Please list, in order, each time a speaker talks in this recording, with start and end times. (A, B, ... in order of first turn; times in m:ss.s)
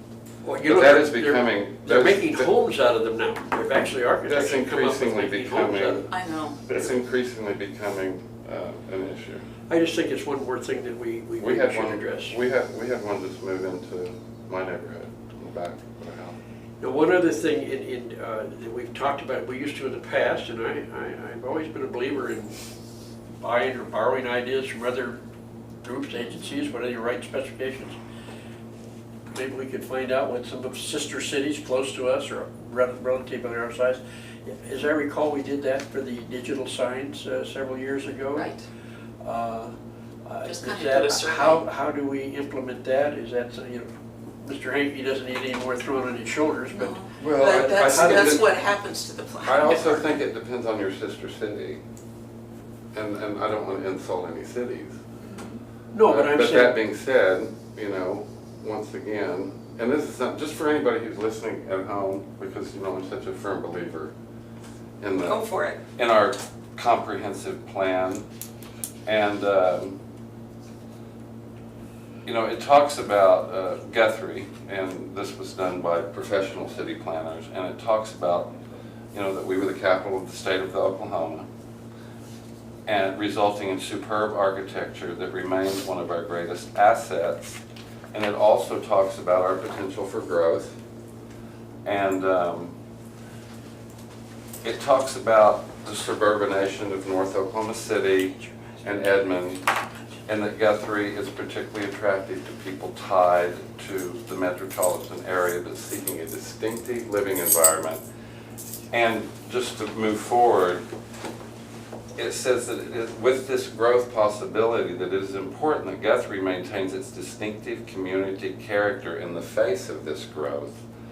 0:00.4-0:06.1 A
0:00.6-0:02.5 B
0:04.3-0:06.1 B
0:06.1-0:06.6 C
0:06.7-0:09.5 B
0:09.7-0:12.4 A
0:11.4-0:16.4 B
0:16.8-0:22.6 A
0:23.4-0:25.2 A
0:25.8-0:28.0 A
0:29.3-0:38.5 A
0:38.3-0:38.6 C
0:39.2-0:39.8 A
0:40.3-0:48.5 A
0:40.4-0:41.6 C
0:46.8-0:50.2 C
0:47.2-0:48.5 B
0:49.4-0:51.8 B
0:52.9-0:55.0 B
0:55.2-0:55.6 C
0:55.9-0:56.8 A
0:56.1-1:04.1 B
1:05.0-1:05.4 B
1:05.2-1:05.8 C
1:06.0-1:08.3 B
1:09.1-1:10.0 B
1:12.2-1:18.5 B
1:19.1-1:21.5 B
1:22.9-1:27.6 B
1:28.1-1:30.8 B
1:31.8-1:32.8 B
1:34.6-1:39.6 B
1:40.3-1:48.0 B
1:48.9-1:50.8 B
1:52.2-2:00.8 B